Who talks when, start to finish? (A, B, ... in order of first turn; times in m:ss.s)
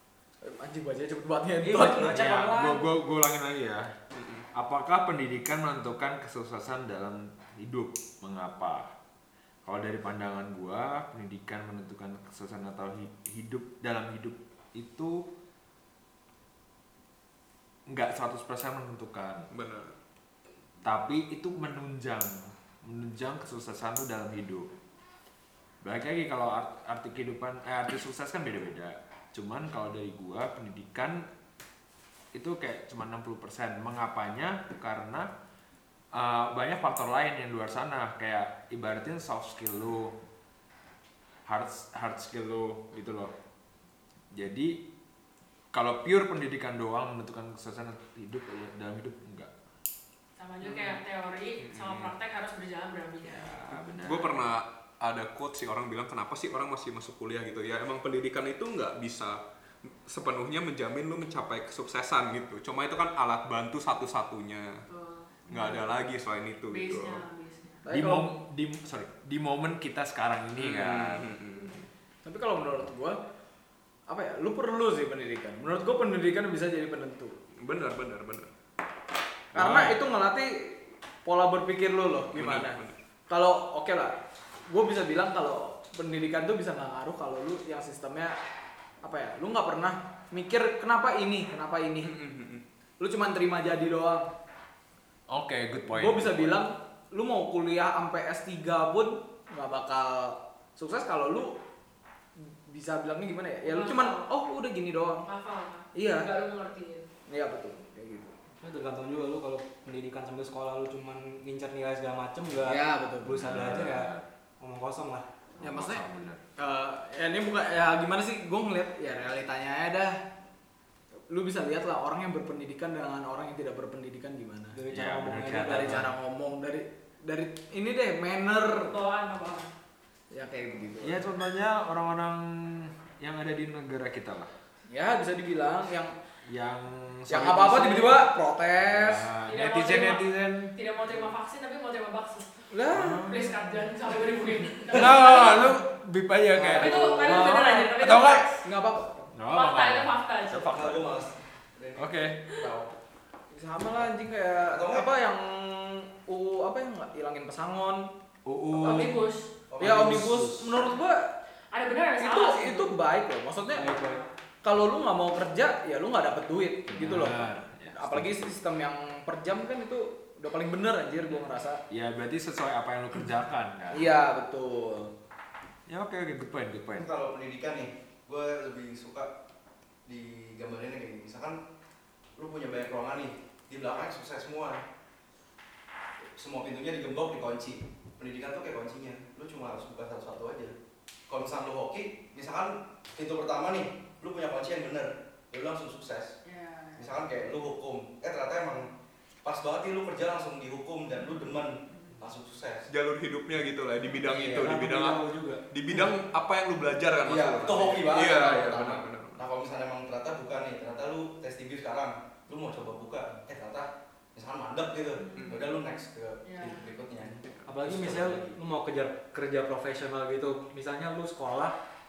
0:00.4-0:02.2 A
0:01.6-0:02.8 B
0:01.7-0:03.9 C
0:04.1-0:04.4 D
0:04.5-0:08.9 C
0:09.6-0:15.2 C
0:17.9-0:19.4 C
0:19.5-0:19.9 D
0:20.8-0:24.7 C
0:25.8-0:31.2 C
0:32.3-0:35.3 C
0:36.1-0:40.1 C
0:41.5-0:43.3 C
0:44.3-0:44.8 C
0:45.7-0:49.5 C
0:50.4-0:53.5 E
0:50.6-0:51.0 D
0:51.6-0:52.1 D
0:53.2-0:54.4 C
0:54.0-1:04.8 D
1:04.9-1:05.8 E
1:05.5-1:07.2 D
1:06.7-1:07.8 E
1:07.8-1:08.3 A
1:07.9-1:11.3 C
1:10.5-1:11.8 D
1:12.2-1:13.2 A
1:14.1-1:17.4 A
1:17.6-1:18.5 D
1:19.5-1:20.0 C
1:19.5-1:24.1 A
1:22.3-1:23.0 D
1:24.7-1:28.4 A
1:29.0-1:32.1 A
1:32.0-1:32.6 D
1:33.0-1:34.3 A
1:35.3-1:36.6 C
1:35.9-1:41.6 A
1:42.7-1:45.3 A
1:43.6-1:44.2 E
1:45.2-1:47.0 E
1:45.9-1:46.3 A
1:47.3-1:48.3 A
1:48.6-1:55.2 B
1:52.6-1:53.3 A
1:53.3-1:54.3 C
1:55.6-1:56.4 C
1:55.6-1:56.0 A
1:56.6-2:00.2 A
2:01.3-2:04.8 A
2:04.7-2:06.1 B
2:04.9-2:06.1 C
2:05.6-2:08.9 A
2:08.8-2:09.7 E
2:10.3-2:11.2 A
2:11.0-2:14.5 C
2:14.9-2:16.1 A
2:16.4-2:18.3 C
2:17.3-2:19.3 A
2:18.9-2:20.7 C
2:19.5-2:22.5 E
2:22.7-2:23.2 A
2:22.9-2:23.8 C
2:23.2-2:25.7 E
2:24.9-2:28.6 C
2:26.7-2:28.5 E
2:26.8-2:27.5 A
2:28.6-2:29.3 A
2:29.3-2:31.0 C
2:29.5-2:30.8 E
2:30.7-2:32.9 F
2:32.0-2:32.5 C
2:33.5-2:38.1 A
2:34.7-2:35.1 F
2:38.4-2:39.2 C
2:38.7-2:39.5 E
2:38.8-2:39.1 A
2:39.7-2:40.1 F
2:39.8-2:40.9 C
2:39.8-2:41.3 A
2:41.7-2:43.0 E
2:42.2-2:43.9 A
2:43.7-2:44.2 B
2:43.8-2:44.3 E
2:44.6-2:51.8 A
2:46.9-2:48.5 C
2:51.9-2:54.1 C
2:53.9-2:55.1 A
2:55.9-2:57.1 C
2:56.9-2:59.3 F
3:00.0-3:01.6 F
3:02.4-3:04.8 F
3:06.4-3:10.8 F
3:11.3-3:16.4 F
3:16.4-3:17.1 E
3:16.9-3:18.9 F
3:19.4-3:22.9 F
3:22.9-3:29.4 D
3:24.3-3:25.6 B
3:27.2-3:38.6 F
3:35.2-3:35.7 E
3:35.4-3:35.7 D
3:36.4-3:36.8 E
3:37.5-3:37.8 D
3:37.7-3:41.7 B